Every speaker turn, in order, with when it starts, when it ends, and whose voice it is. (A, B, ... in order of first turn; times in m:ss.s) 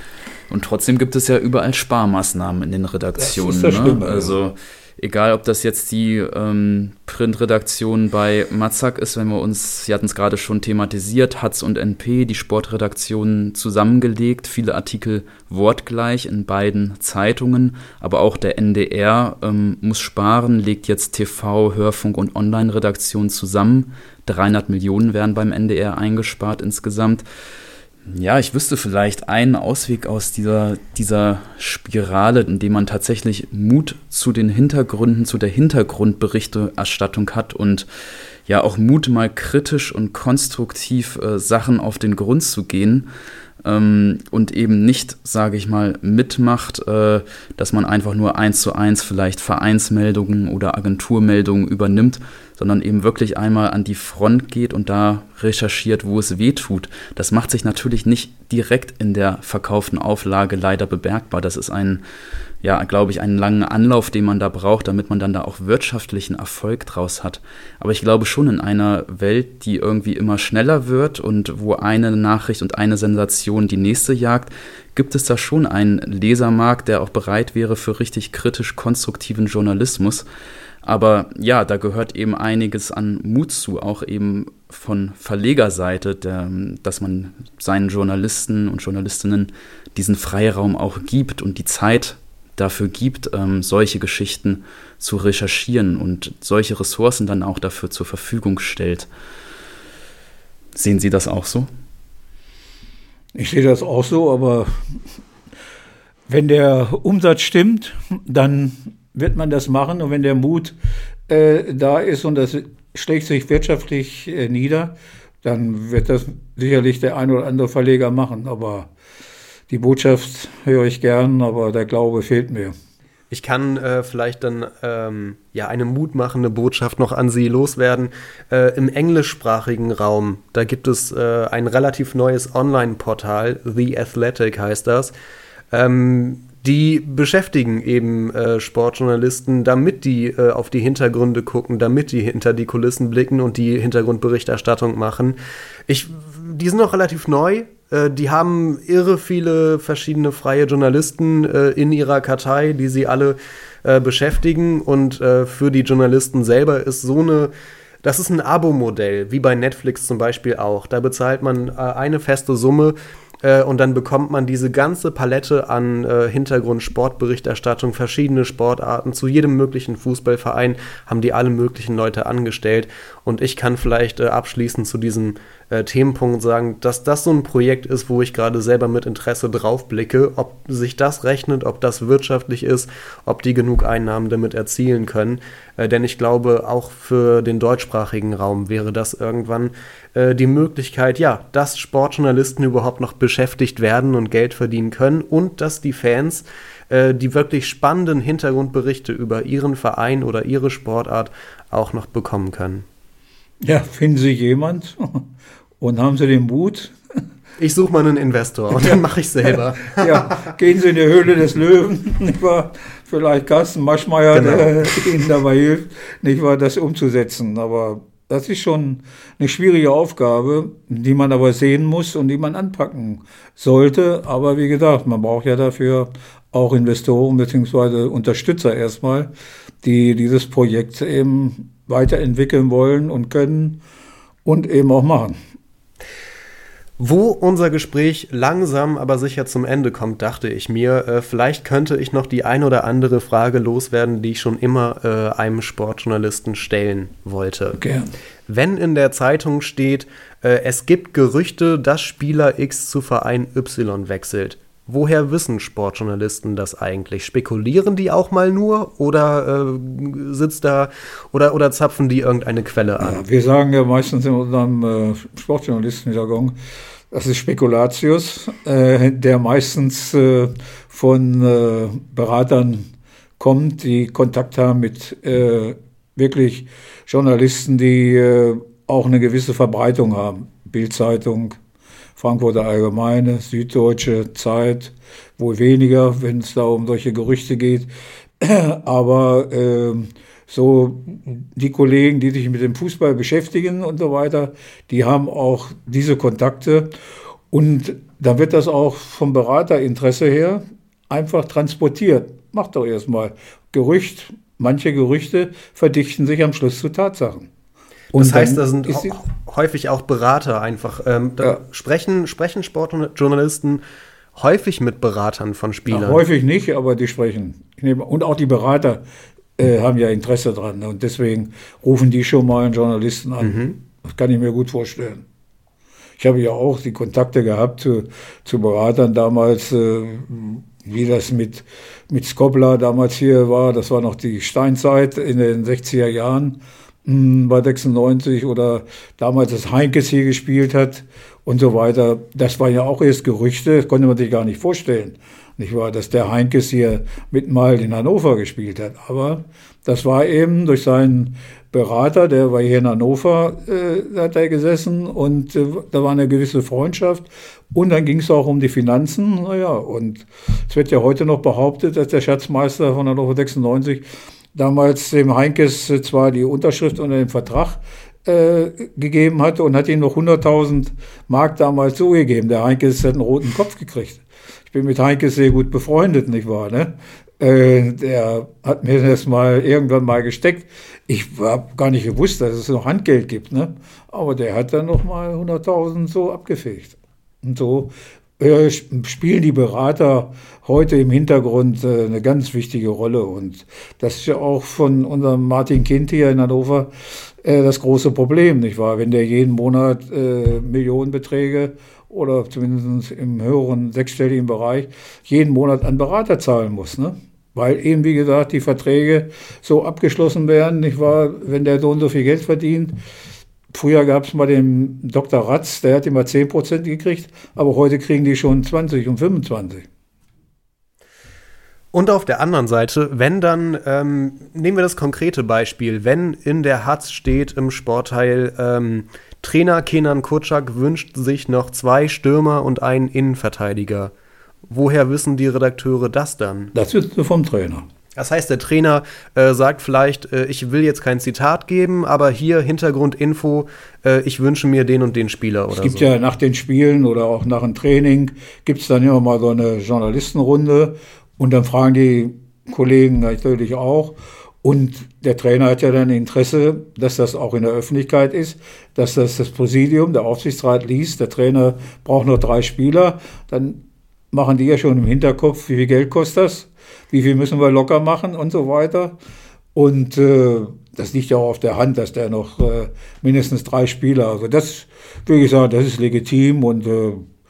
0:00.5-0:27.2 A
0:03.2-0:04.4 B
0:28.1-0:37.9 A
0:38.4-0:43.1 A
0:43.6-1:02.0 A
1:02.6-1:20.2 A
1:20.8-1:39.1 A
1:40.7-1:41.7 A
1:43.3-1:44.8 B
1:46.3-1:50.8 B
1:51.3-1:58.9 B
1:59.7-2:02.7 B
2:03.3-2:15.1 C
2:15.7-2:25.4 C
2:25.9-2:37.5 C
2:38.0-3:22.8 C
3:23.6-3:25.2 B
3:25.8-3:26.9 B
3:27.6-3:30.4 C
3:29.9-3:49.3 B
3:34.3-3:34.9 C
3:49.8-3:53.8 B
3:54.4-3:55.4 B
3:57.0-4:07.8 C
4:07.8-4:08.1 B
4:08.5-4:23.2 C
4:23.0-4:26.6 B
4:27.1-4:32.9 B
4:33.4-4:41.6 B
4:42.2-4:47.9 B
4:48.4-4:56.9 B
4:57.5-5:07.5 B
5:08.1-5:09.2 B
5:08.1-5:13.8 C
5:14.3-5:16.2 C
5:15.9-5:19.0 B
5:19.6-5:25.2 B
5:23.4-5:23.8 C
5:26.2-6:52.9 B
6:53.7-6:59.9 B
7:01.9-7:14.1 C
7:14.7-7:16.7 C
7:16.7-7:17.8 B
7:18.2-7:26.1 C
7:25.7-7:49.1 B
7:49.7-7:57.3 B